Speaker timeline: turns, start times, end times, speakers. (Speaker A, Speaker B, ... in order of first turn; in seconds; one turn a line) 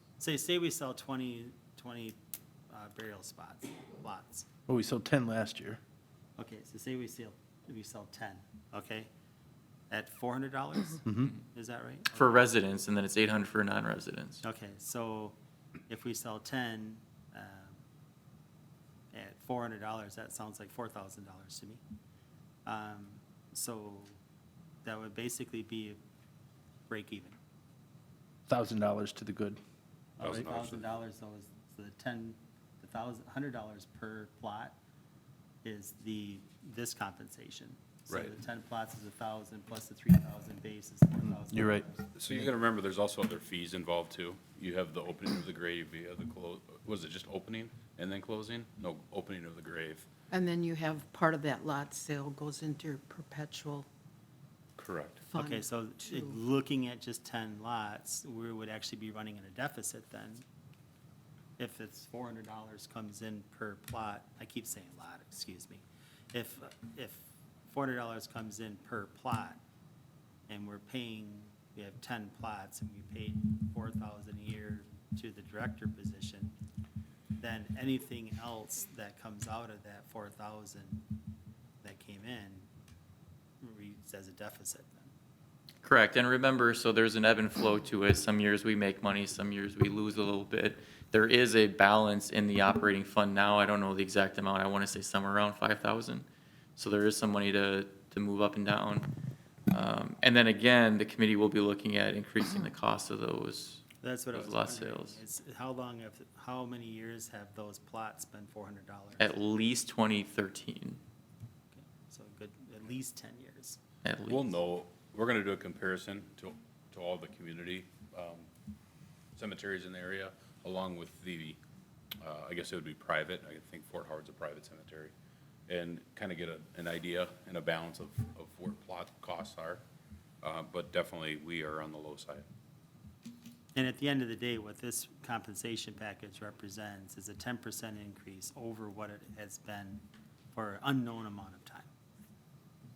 Speaker A: 0.2-2.2
Speaker A: 2.7-4.5
Speaker B: 4.7-5.8
Speaker A: 6.4-9.1
Speaker A: 9.9-12.5
Speaker C: 12.1-14.4
Speaker A: 14.4-15.4
Speaker A: 15.9-17.8
Speaker A: 19.1-21.8
Speaker A: 22.6-24.2
Speaker A: 24.8-26.0
Speaker A: 26.9-27.4
Speaker B: 28.5-29.6
Speaker A: 30.2-34.8
Speaker D: 30.2-30.9
Speaker A: 35.6-42.1
Speaker B: 41.5-41.8
Speaker D: 42.1-50.0
Speaker E: 50.3-53.9
Speaker D: 54.8-55.2
Speaker E: 55.2-56.4
Speaker A: 55.4-60.4
Speaker A: 61.6-69.6
Speaker A: 70.5-76.5
Speaker A: 77.4-81.0
Speaker A: 81.8-82.7
Speaker A: 83.6-85.1
Speaker C: 85.8-96.2
Speaker C: 96.8-99.1
Speaker C: 99.7-105.2
Speaker A: 104.0-109.3
Speaker C: 109.2-111.0
Speaker A: 111.7-113.8
Speaker C: 114.0-114.5
Speaker D: 114.3-118.5
Speaker D: 119.4-121.6
Speaker D: 122.2-125.1
Speaker D: 125.7-129.8
Speaker D: 130.4-132.5
Speaker A: 133.8-141.9